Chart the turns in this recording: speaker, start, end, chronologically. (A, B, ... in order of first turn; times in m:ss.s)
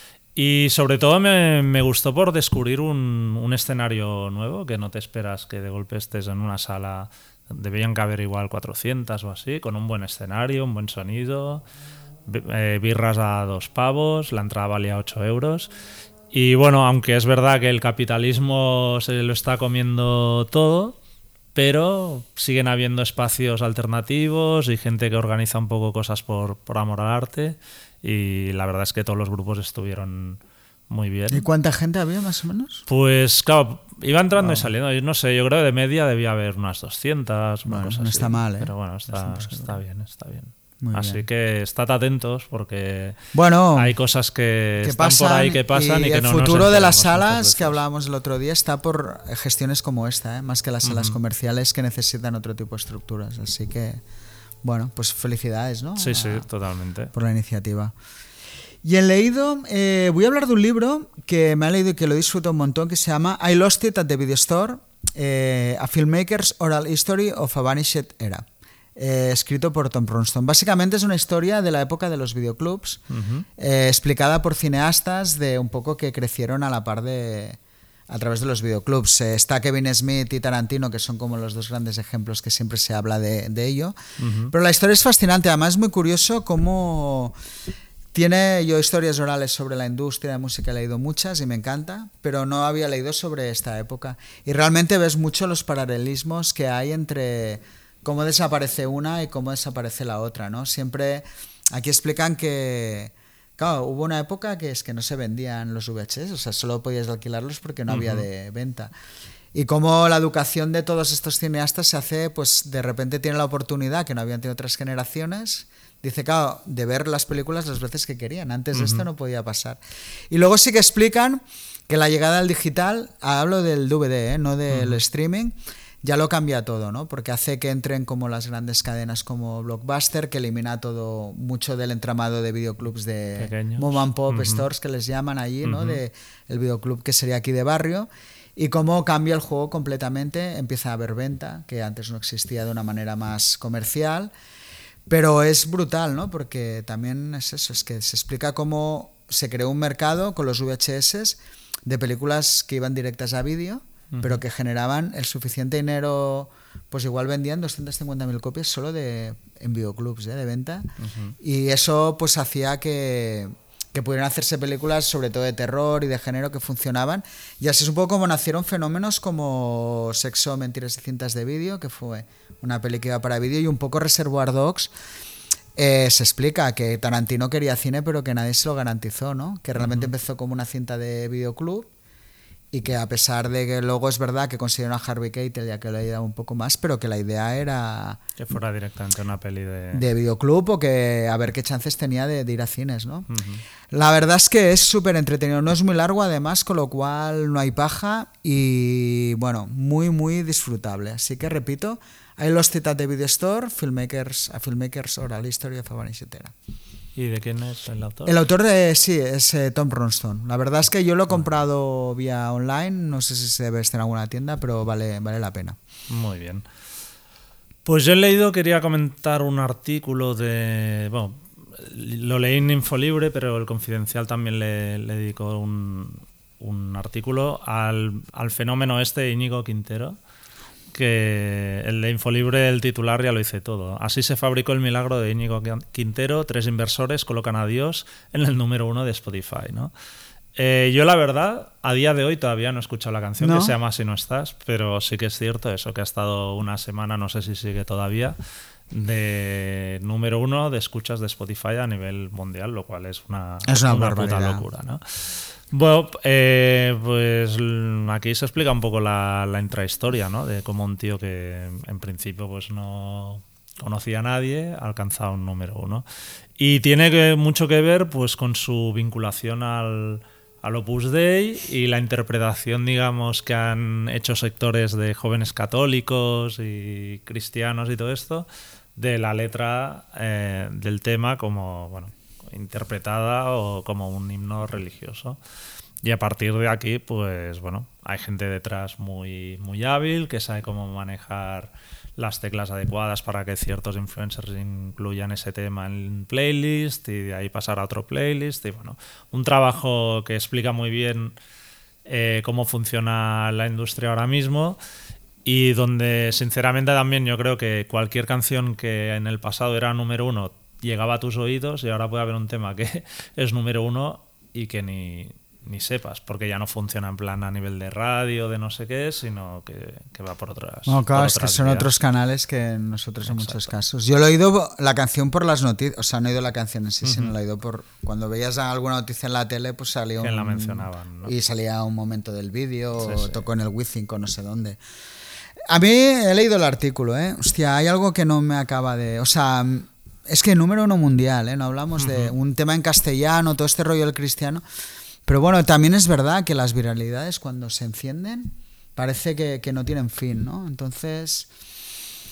0:00.4-0:11.6 A
0:12.3-0:15.7 A
0:16.3-0:21.0 A
0:21.6-0:31.5 A
0:31.3-0:32.8 B
0:32.9-0:47.8 A
0:34.4-0:34.7 B
0:37.7-0:39.8 B
0:40.8-0:41.2 B
0:43.3-0:44.0 B
0:44.8-0:54.0 B
0:50.8-0:51.2 A
0:54.6-0:56.5 B
0:56.0-0:57.1 A
0:57.1-0:57.9 B
0:58.8-1:08.4 B
1:09.0-1:13.0 B
1:13.1-1:13.5 A
1:13.6-1:24.0 B
1:24.2-1:24.5 A
1:24.5-1:27.4 B
1:28.1-1:48.9 B
1:47.9-1:48.3 A
1:49.5-1:59.8 B
1:58.7-1:59.0 A
2:00.3-2:24.3 B
2:04.7-2:05.0 A
2:13.4-2:14.7 A
2:15.6-2:16.0 A
2:25.1-2:40.9 B
2:34.1-2:34.4 A
2:41.0-2:41.4 A
2:41.4-2:54.9 B
2:55.8-3:01.9 B
2:59.8-3:00.1 A
3:02.7-3:08.2 B
3:08.4-3:10.1 A
3:09.9-3:13.3 B
3:13.3-3:13.6 A
3:13.9-3:26.5 B
3:27.2-3:28.4 A
3:28.2-3:35.8 B
3:36.1-3:36.7 A
3:37.8-3:50.2 A
3:50.9-3:59.9 A
4:00.6-4:08.4 A
4:03.4-4:03.8 B
4:08.9-4:26.1 A
4:13.7-4:14.6 B
4:26.6-4:45.4 A
4:46.0-5:01.4 A
5:02.1-5:04.8 A
5:05.4-5:21.9 A
5:20.9-5:34.8 B
5:23.2-5:23.8 A
5:27.0-5:27.3 A
5:30.2-5:31.3 A
5:33.0-5:33.4 A
5:35.7-5:44.6 B
5:42.0-5:42.4 A
5:45.3-5:51.5 B